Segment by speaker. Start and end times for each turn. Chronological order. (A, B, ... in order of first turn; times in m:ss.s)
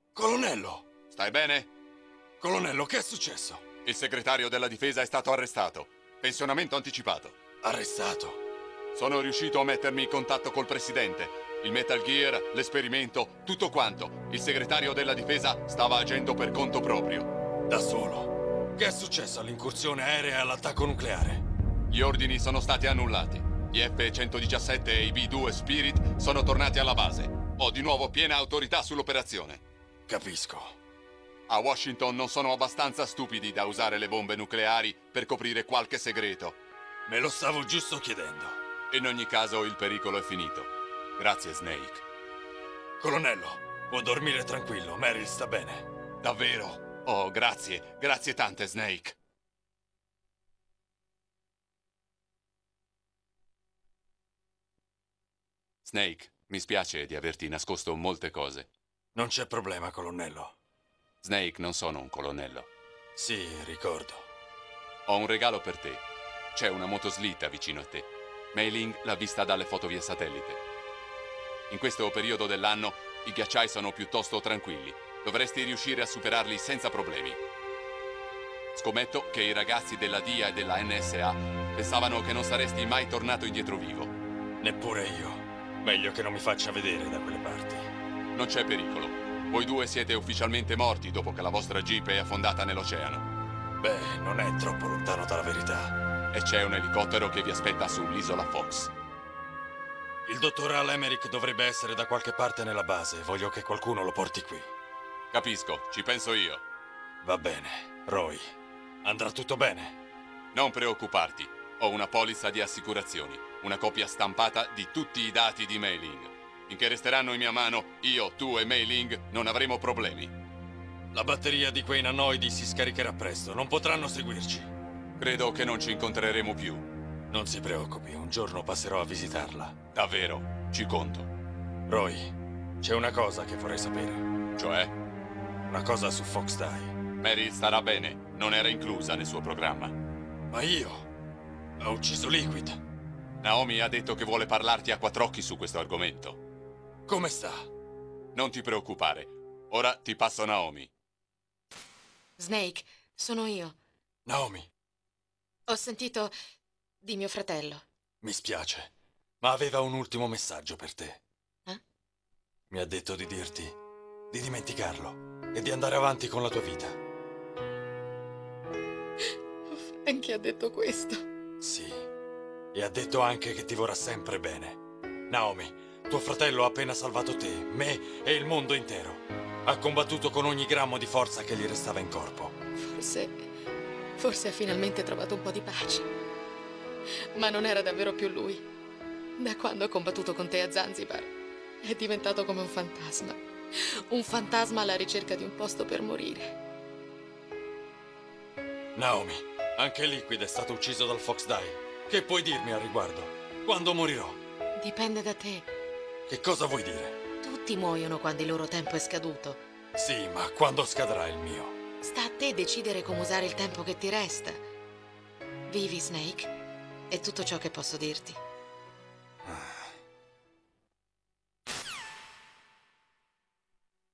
0:00.1-0:00.9 A
0:01.1-0:01.7 B
0:02.4-0:03.6 A
0:03.8-0:07.4 B
0:07.6-0:08.4 A
0:08.9-0:17.3 B
0:17.7-0:21.4 A
0:21.9-0:29.6 B
0:30.1-0:30.8 A
0:31.5-0:36.6 B
0:37.1-0:38.6 A
0:38.9-0:42.0 B
0:43.0-0:45.9 A
0:46.2-0:49.2 B
0:55.8-0:58.7 B
0:59.2-1:00.6 A
1:01.2-1:02.7 B
1:03.2-1:04.3 A
1:05.1-1:06.0 B
1:06.5-1:10.6 B
1:11.7-1:17.4 B
1:18.7-1:24.1 B
1:24.6-1:27.9 A
1:28.3-1:33.2 B
1:33.8-1:36.0 A
1:36.3-1:38.9 B
1:40.2-1:44.7 A
1:45.3-1:46.6 B
1:47.2-1:50.0 A
1:50.5-2:00.3 B
2:01.1-2:04.7 A
2:05.2-2:06.8 B
2:07.3-2:09.8 A
2:09.9-2:11.3 B
2:11.9-2:14.2 A
2:14.6-2:14.9 B
2:15.7-2:16.9 A
2:17.2-2:19.9 B
2:20.5-2:21.1 A
2:21.8-2:22.8 A
2:23.4-2:26.4 B
2:27.1-2:27.7 A
2:28.3-2:30.9 B
2:32.4-2:33.8 C
2:34.2-2:34.7 A
2:35.7-2:36.3 C
2:37.0-2:37.9 C
2:38.2-2:41.2 A
2:42.7-2:43.7 A
2:44.3-2:47.0 A
2:49.7-2:51.2 C
2:51.6-2:52.1 A
2:52.7-3:02.6 A
3:02.8-3:03.5 C
3:04.2-3:06.1 C
3:07.3-3:08.7 C
3:09.4-3:11.3 C
3:11.8-3:16.6 C
3:18.9-3:24.4 A
3:24.8-3:25.7 C
3:26.3-3:27.2 A
3:27.4-3:29.6 C
3:30.0-3:31.8 A
3:32.0-3:34.6 C
3:35.7-3:36.5 C
3:37.1-3:38.4 C
3:39.4-3:39.8 A